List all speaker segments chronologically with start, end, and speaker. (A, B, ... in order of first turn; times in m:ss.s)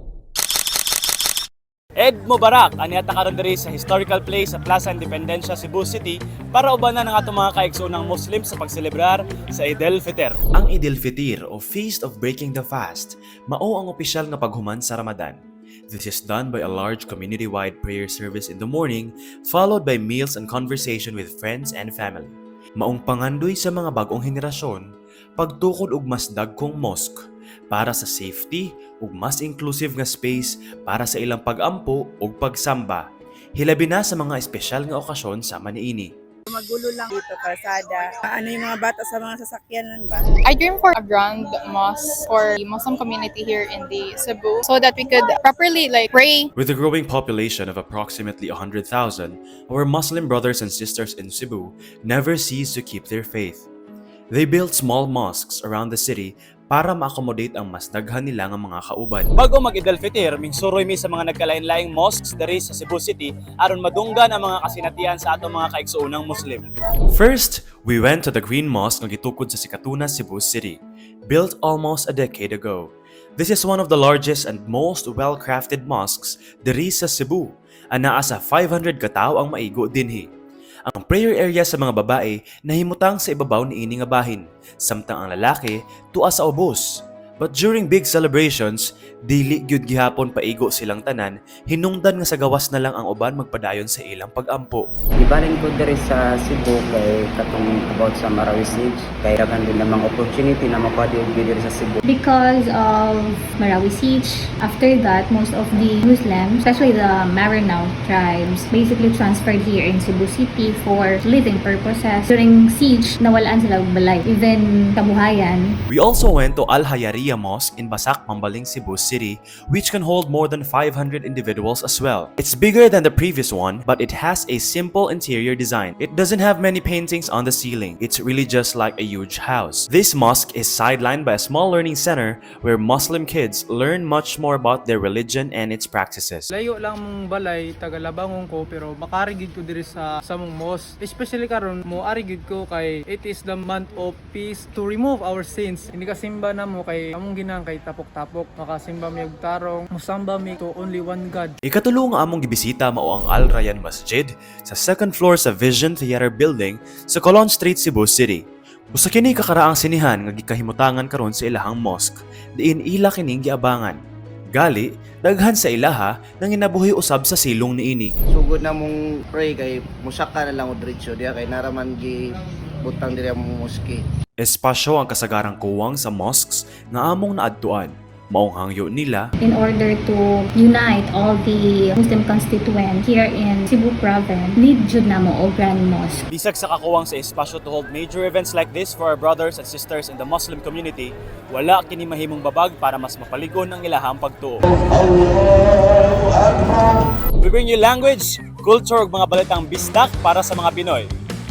0:02.0-0:10.4 A
0:10.5-0:24.8 B
0:25.4-0:27.2 B
0:27.7-0:33.0 B
0:33.6-0:36.1 B
0:36.5-0:40.3 C
0:40.4-0:46.5 D
0:46.6-0:53.6 B
0:54.3-0:59.3 B
0:59.4-1:06.6 A
1:07.1-1:20.3 B
1:20.9-1:34.8 B
1:35.2-1:42.0 E
1:42.0-1:55.8 F
1:55.9-2:16.5 B
2:16.5-2:31.6 G
2:31.6-2:44.0 B
2:44.5-2:48.1 B
2:48.3-2:52.2 H
2:52.8-2:54.0 H
2:54.4-2:59.3 B
2:59.4-3:06.2 F
3:06.3-3:14.7 A
3:17.4-3:21.1 A